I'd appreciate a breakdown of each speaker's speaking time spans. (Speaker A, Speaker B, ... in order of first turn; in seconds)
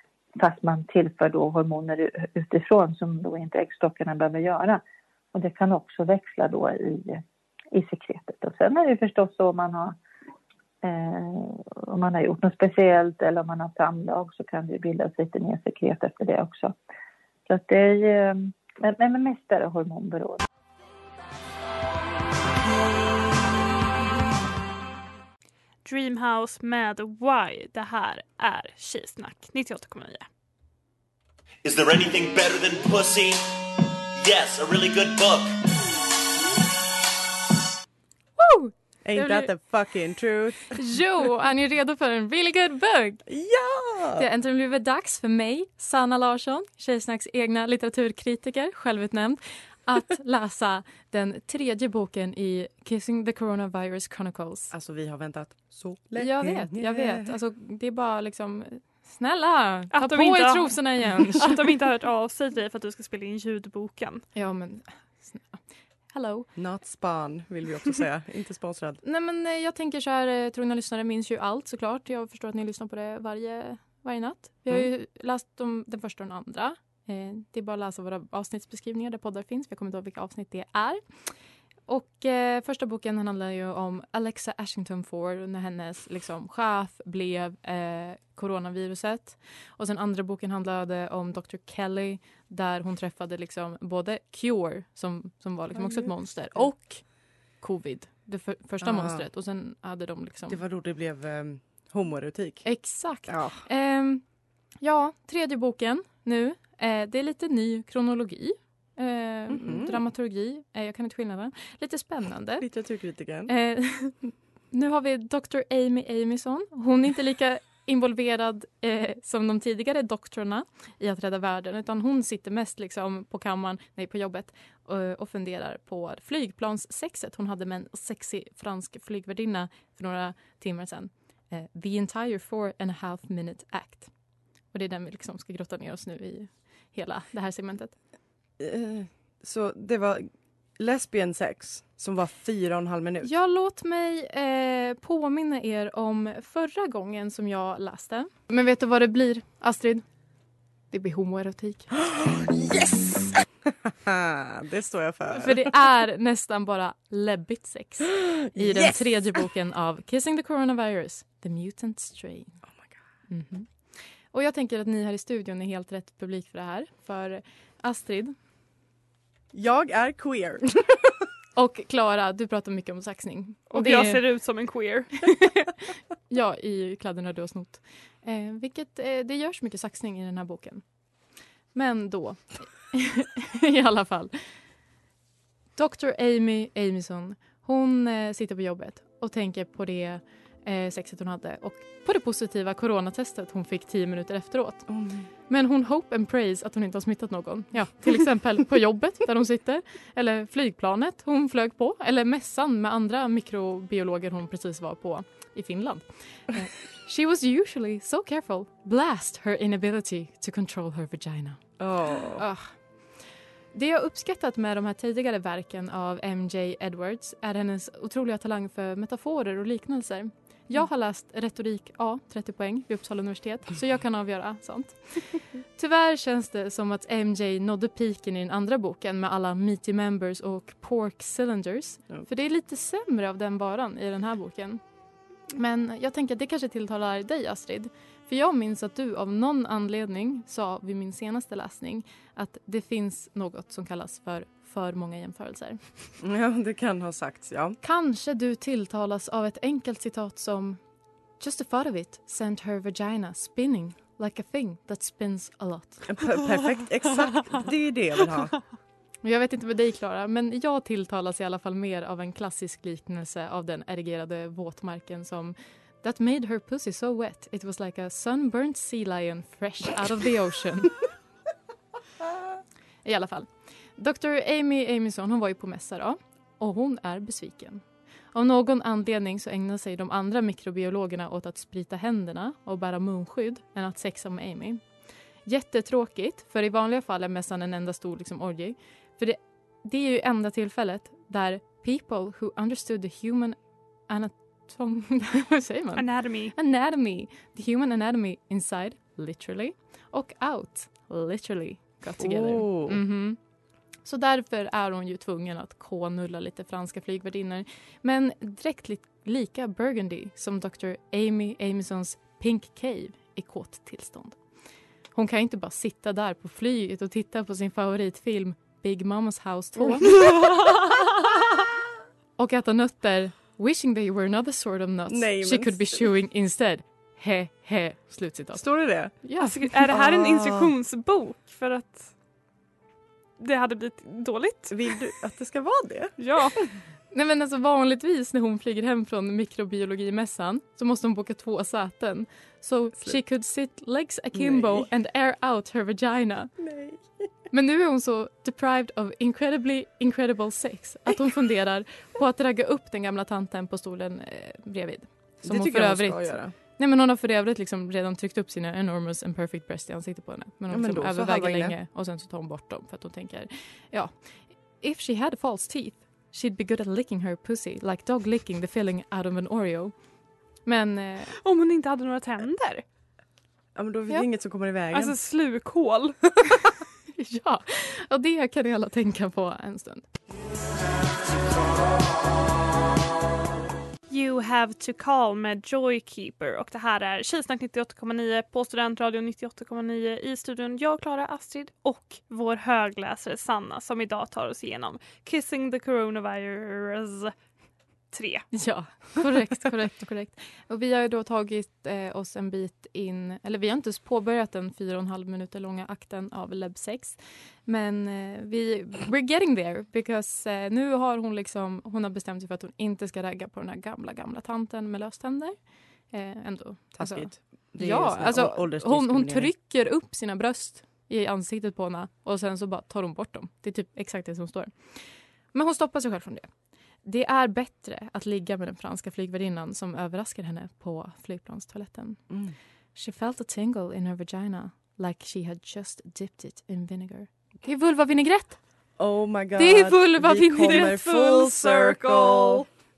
Speaker A: 0.4-4.8, 5.3-10.0, 10.8-16.7, 17.5-20.4
Speaker B: 25.9-30.3, 59.9-64.2, 173.7-175.1, 296.0-296.5, 329.4-332.1, 333.4-335.1, 336.2-336.6, 371.4-372.8, 374.9-376.2, 384.1-397.3, 398.1-398.5, 440.6-442.6
Speaker C: 31.6-33.4, 34.2-35.6
Speaker D: 38.4-39.5, 40.7-43.2, 44.2-54.7, 56.2-61.6, 64.3-66.5, 69.0-81.3, 81.9-100.6, 102.6-104.2, 104.8-112.7, 113.5-134.1, 134.7-138.0, 143.2-150.1, 150.9-151.9, 155.3-162.6, 163.3-168.3, 171.6-174.2, 175.3-175.7, 176.3-180.8, 181.7-184.4, 185.8-211.8, 212.4-212.8, 213.7-234.8, 235.5-245.8, 247.8-250.8, 251.4-256.2, 259.2-271.0, 273.0-284.8, 285.4-303.4, 304.0-314.4, 315.1-321.1, 322.4-329.8, 337.1-346.6, 347.5-370.0, 370.6-371.4, 377.2-380.1, 398.5-426.5, 427.0-432.3, 432.9-439.0, 439.6-440.9
Speaker E: 39.0-40.8, 43.3-44.2, 54.7-57.3, 66.6-69.0, 95.8-96.7, 98.8-99.3, 100.5-103.7, 109.5-110.0, 112.6-113.5, 138.6-140.3, 140.8-143.3, 152.1-153.3, 154.1-155.7, 158.1-159.4, 169.5-171.1, 194.9-195.3, 211.8-212.4, 246.2-247.8, 256.1-258.6, 302.2-303.0, 319.8-320.5, 325.1-326.0, 328.6-329.3, 329.9-330.7, 334.7-336.3, 344.3-344.9, 346.6-347.1, 355.4-356.5, 360.7-361.8, 373.8-375.2, 416.9-419.5, 432.3-432.6, 439.0-442.7